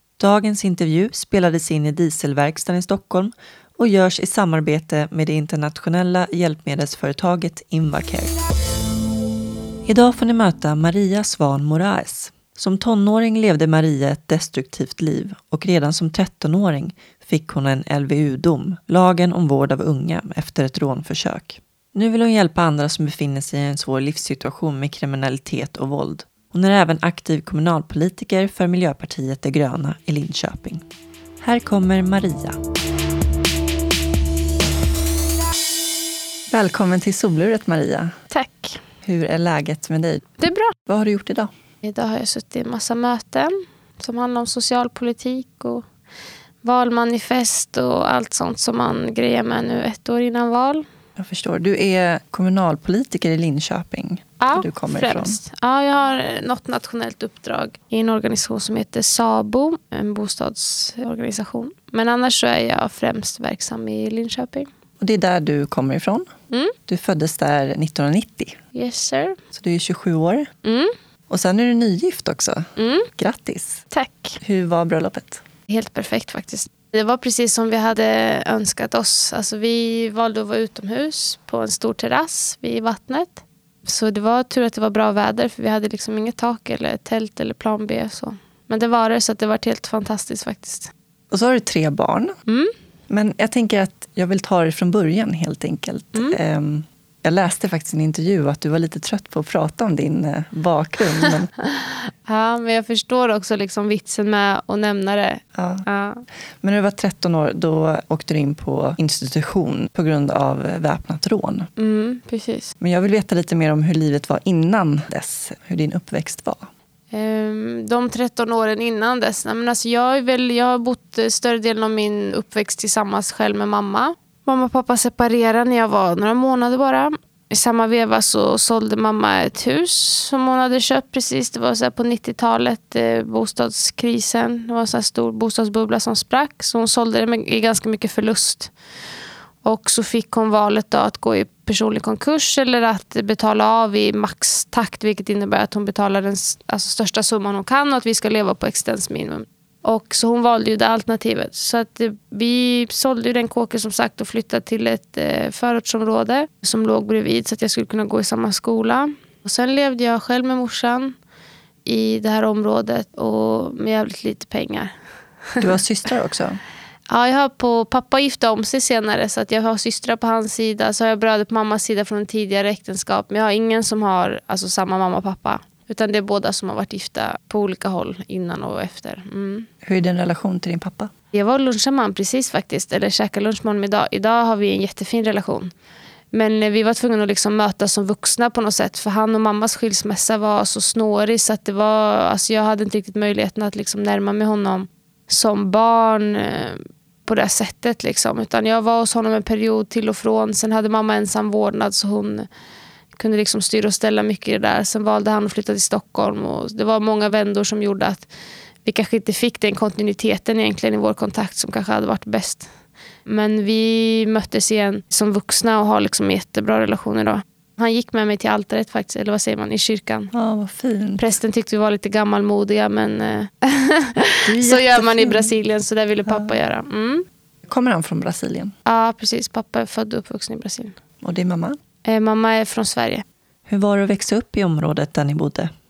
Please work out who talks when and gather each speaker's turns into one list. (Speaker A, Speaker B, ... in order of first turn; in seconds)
Speaker A: 0.2-8.3, 9.8-30.8, 31.4-32.6, 36.5-38.1, 39.0-40.3, 40.9-41.5, 51.2-55.4, 65.0-66.3, 66.9-68.6, 69.5-70.5, 71.3-73.8, 74.4-75.4, 91.3-92.4, 93.1-101.5, 105.5-105.8, 106.6-111.7, 112.8-116.7, 165.6-166.6, 179.8-181.1, 220.3-221.2, 224.4-225.5, 227.7-228.7, 231.2-231.8, 233.7-235.7
Speaker B: 38.3-38.8, 40.4-40.7, 41.8-45.8, 46.6-50.8, 54.4-64.7, 68.7-69.4, 70.6-70.9, 72.8-73.1, 73.9-74.4, 75.7-90.9, 92.5-92.7, 101.6-106.2, 111.8-112.7, 117.1-138.7, 139.6-161.1, 161.8-164.9, 167.1-179.7, 181.3-185.7, 186.3-202.5, 203.2-208.3, 208.8-212.7, 213.2-220.3, 221.2-227.2, 228.8-230.9, 232.0-233.2